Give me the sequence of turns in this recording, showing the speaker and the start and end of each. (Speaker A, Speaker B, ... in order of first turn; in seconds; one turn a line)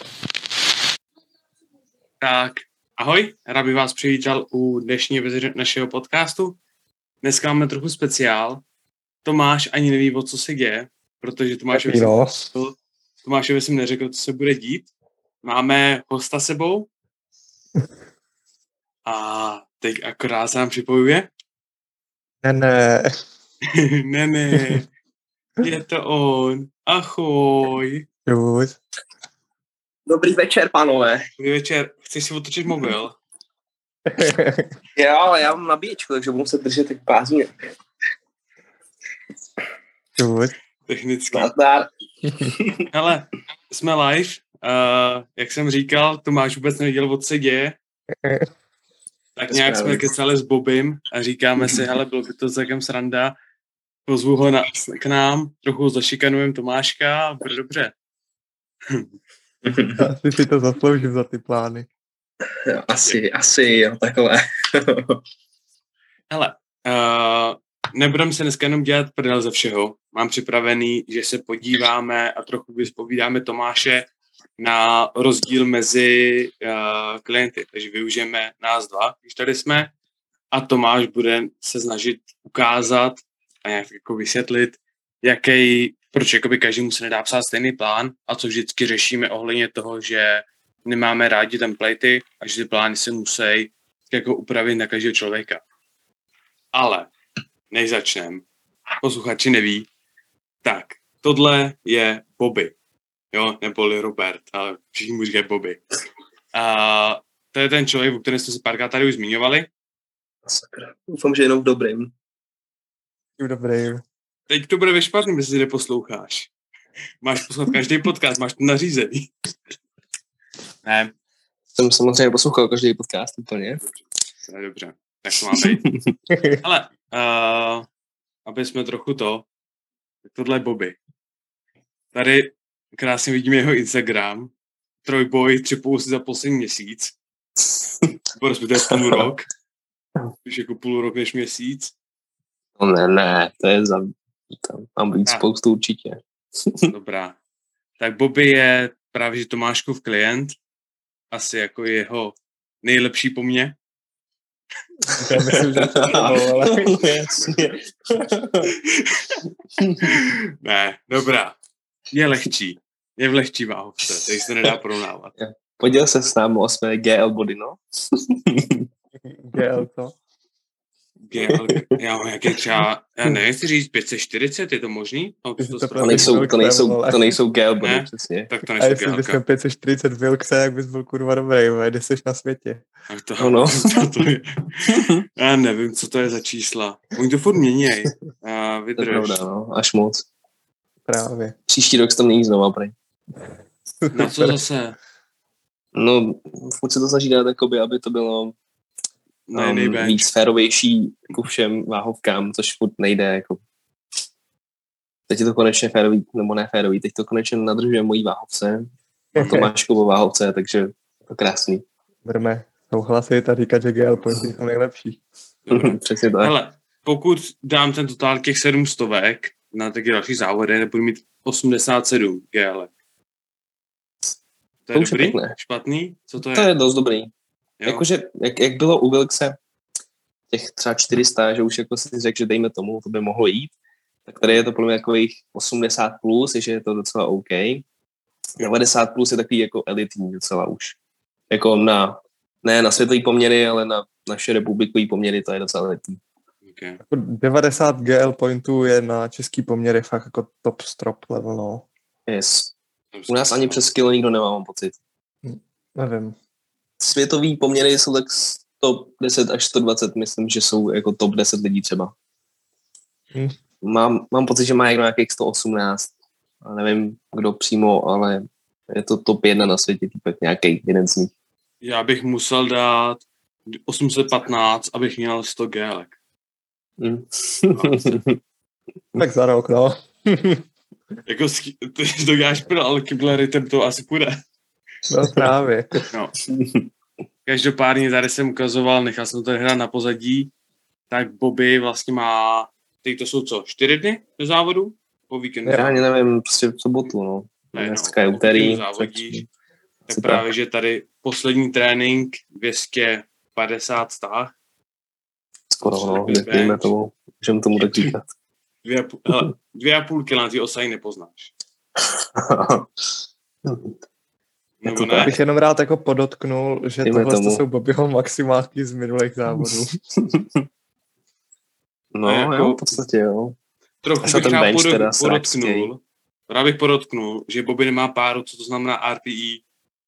Speaker A: 2.2-6.6
Speaker A: 7.2-8.7
Speaker A: 9.2-14.9
Speaker B: 11.7-12.4
Speaker A: 15.4-16.9
Speaker A: 19.1-21.3
Speaker B: 22.4-23.2
Speaker A: 23.7-24.9
Speaker A: 25.6-28.1
Speaker B: 28.3-28.8
Speaker C: 30.1-31.3
Speaker A: 31.4-33.2
Speaker B: 34.1-34.7
Speaker C: 35.0-37.5
Speaker B: 40.2-40.5
Speaker A: 40.9-41.5
Speaker C: 41.3-41.9
Speaker C: 42.5-42.9
Speaker A: 42.9-47.8
Speaker B: 48.1-48.5
Speaker A: 49.4-53.4
Speaker C: 49.5-50.1
Speaker A: 54.1-57.9
Speaker C: 59.6-60.0
Speaker B: 60.0-61.9
Speaker C: 62.7-65.2
Speaker A: 66.3-79.9
Speaker A: 80.5-95.6
Speaker A: 96.7-97.1
Speaker A: 97.7-98.4
Speaker A: 99.0-99.9
Speaker A: 100.6-102.7
Speaker A: 103.3-105.8
Speaker A: 106.5-109.7
Speaker C: 110.5-112.1
Speaker B: 113.4-114.0
Speaker A: 114.5-116.5
Speaker A: 117.2-119.3
Speaker A: 120.8-121.1
Speaker C: 121.8-123.8
Speaker A: 124.5-125.8
Speaker C: 125.5-126.1
Speaker B: 126.3-126.6
Speaker A: 126.6-127.9
Speaker A: 128.5-129.5
Speaker A: 130.2-131.0
Speaker A: 132.1-134.5
Speaker A: 135.0-137.1
Speaker A: 138.4-139.5
Speaker C: 138.9-139.3
Speaker A: 140.4-141.9
Speaker C: 142.8-146.9
Speaker A: 146.9-147.4
Speaker A: 148.0-150.6
Speaker A: 151.3-153.8
Speaker B: 155.2-157.4
Speaker C: 155.3-158.7
Speaker A: 159.0-159.4
Speaker C: 159.8-160.0
Speaker A: 160.1-161.6
Speaker A: 162.1-165.3
Speaker C: 165.4-168.9
Speaker B: 169.2-170.2
Speaker A: 171.2-176.4
Speaker B: 175.6-177.3
Speaker C: 176.0-178.5
Speaker A: 177.8-179.4
Speaker B: 178.8-182.9
Speaker A: 183.1-189.4
Speaker C: 183.4-184.0
Speaker C: 184.9-185.2
Speaker C: 189.0-190.2
Speaker B: 191.1-191.6
Speaker C: 191.7-192.9
Speaker B: 194.0-194.6
Speaker A: 194.1-195.0
Speaker C: 195.9-198.6
Speaker A: 199.5-200.3
Speaker C: 199.5-203.6
Speaker C: 205.3-208.9
Speaker C: 209.4-211.8
Speaker B: 212.2-215.2
Speaker A: 215.7-222.9
Speaker C: 215.7-216.5
Speaker A: 224.9-226.7
Speaker C: 224.9-225.6
Speaker C: 226.5-227.3
Speaker C: 227.9-229.6
Speaker C: 230.5-233.7
Speaker C: 234.3-237.8
Speaker C: 238.6-241.0
Speaker C: 241.5-246.2
Speaker A: 246.7-247.0
Speaker B: 247.1-251.9
Speaker C: 252.3-252.7
Speaker A: 253.1-253.8
Speaker C: 253.3-255.0
Speaker B: 255.4-256.4
Speaker C: 257.0-262.1
Speaker C: 263.8-266.1
Speaker C: 266.6-271.3
Speaker A: 271.8-276.1
Speaker C: 277.0-278.4
Speaker A: 277.8-278.1
Speaker B: 279.2-280.6
Speaker A: 281.3-284.4
Speaker B: 285.1-286.0
Speaker C: 285.3-286.9
Speaker A: 287.5-290.5
Speaker A: 291.1-296.0
Speaker C: 295.7-299.4
Speaker A: 297.7-299.4
Speaker C: 300.1-300.4
Speaker A: 300.1-304.5
Speaker C: 305.7-308.3
Speaker A: 305.9-306.9
Speaker A: 307.8-308.1
Speaker A: 308.9-311.5
Speaker C: 312.4-313.1
Speaker C: 313.6-314.0
Speaker A: 314.8-315.3
Speaker C: 314.9-315.4
Speaker B: 315.2-319.9
Speaker C: 317.1-317.6
Speaker C: 320.2-320.6
Speaker C: 322.1-323.6
Speaker A: 322.3-322.9
Speaker A: 324.0-329.6
Speaker C: 324.2-325.9